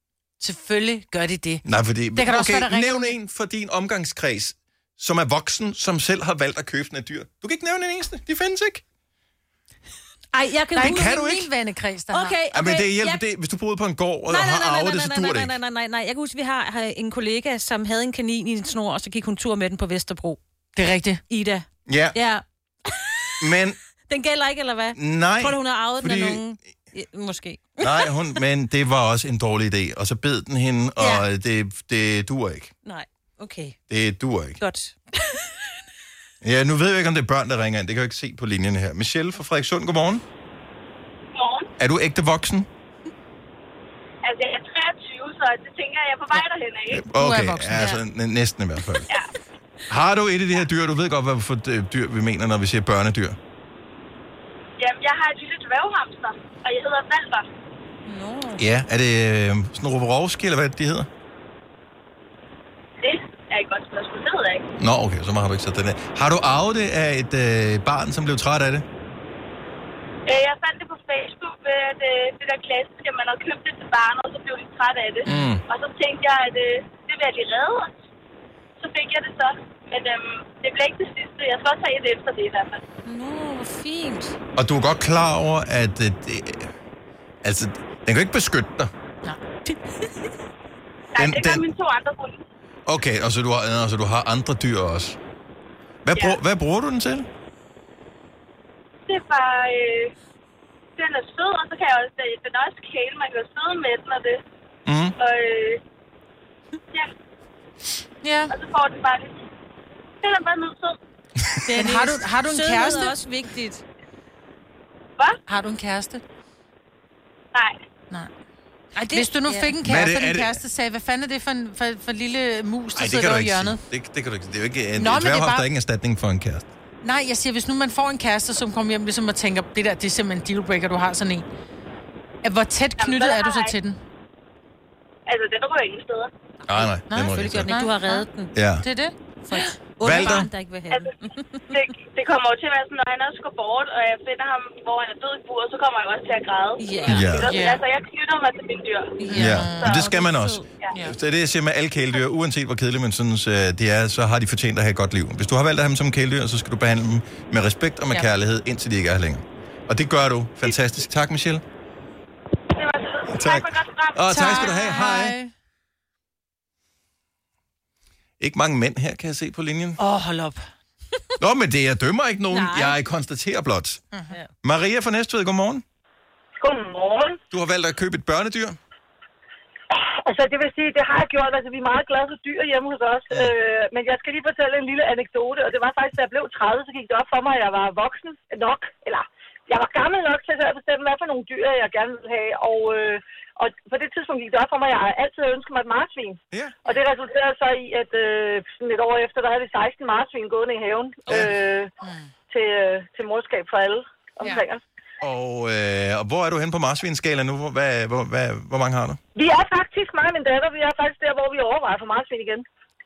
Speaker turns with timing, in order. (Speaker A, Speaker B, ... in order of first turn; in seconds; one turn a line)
Speaker A: 0.4-3.2
Speaker B: 1.6-8.8
Speaker C: 10.3-11.1
Speaker A: 10.7-12.4
Speaker B: 10.8-11.5
Speaker C: 12.1-13.2
Speaker B: 12.5-15.6
Speaker C: 14.3-20.4
Speaker A: 20.8-21.2
Speaker C: 21.3-23.6
Speaker B: 21.9-22.2
Speaker B: 23.4-23.8
Speaker C: 24.1-28.1
Speaker B: 24.9-26.4
Speaker B: 27.8-32.7
Speaker C: 31.0-31.2
Speaker C: 32.9-33.8
Speaker B: 33.9-34.6
Speaker C: 34.6-35.8
Speaker B: 36.4-40.2
Speaker D: 41.4-41.7
Speaker B: 41.8-42.7
Speaker D: 44.2-47.0
Speaker B: 46.9-49.1
Speaker A: 47.1-48.0
Speaker B: 49.9-53.4
Speaker D: 54.8-57.5
Speaker C: 58.1-58.6
Speaker B: 58.6-61.1
Speaker D: 63.0-64.6
Speaker B: 64.8-68.8
Speaker D: 70.3-77.9
Speaker B: 75.2-75.6
Speaker D: 78.8-82.8
Speaker C: 83.0-84.4
Speaker B: 84.6-86.7
Speaker B: 87.4-88.9
Speaker D: 91.2-92.4
Speaker B: 91.2-91.7
Speaker B: 92.9-95.2
Speaker B: 96.0-97.3
Speaker D: 99.1-100.1
Speaker D: 101.0-104.4
Speaker B: 104.9-105.2
Speaker D: 105.2-105.8
Speaker A: 108.2-108.5
Speaker D: 108.5-109.4
Speaker D: 110.2-111.0
Speaker C: 111.7-113.8
Speaker A: 111.7-113.2
Speaker A: 115.5-116.2
Speaker C: 119.0-119.8
Speaker A: 119.1-123.8
Speaker B: 119.8-120.6
Speaker B: 123.0-126.7
Speaker A: 125.0-125.7
Speaker A: 127.0-131.4
Speaker A: 132.4-134.0
Speaker D: 133.0-133.7
Speaker D: 135.3-136.3
Speaker B: 136.7-137.8
Speaker C: 136.7-138.5
Speaker A: 137.1-138.3
Speaker B: 138.5-138.9
Speaker A: 138.8-139.6
Speaker C: 139.4-141.8
Speaker B: 140.0-140.5
Speaker D: 140.1-141.1
Speaker D: 141.7-150.1
Speaker C: 146.8-147.2
Speaker B: 147.1-147.6
Speaker A: 147.3-147.8
Speaker C: 149.2-150.7
Speaker A: 149.3-149.9
Speaker B: 149.3-161.6
Speaker D: 162.8-165.2
Speaker B: 163.3-165.4
Speaker A: 164.3-165.5
Speaker B: 168.4-170.0
Speaker A: 170.0-170.6
Speaker B: 171.4-174.0
Speaker C: 172.5-173.0
Speaker A: 174.1-174.4
Speaker B: 174.6-175.8
Speaker E: 176.6-177.4
Speaker B: 177.5-178.8
Speaker E: 179.9-201.9
Speaker B: 196.5-196.8
Speaker B: 201.3-201.5
Speaker A: 202.0-202.3
Speaker E: 202.5-204.8
Speaker B: 205.2-209.2
Speaker E: 209.4-212.7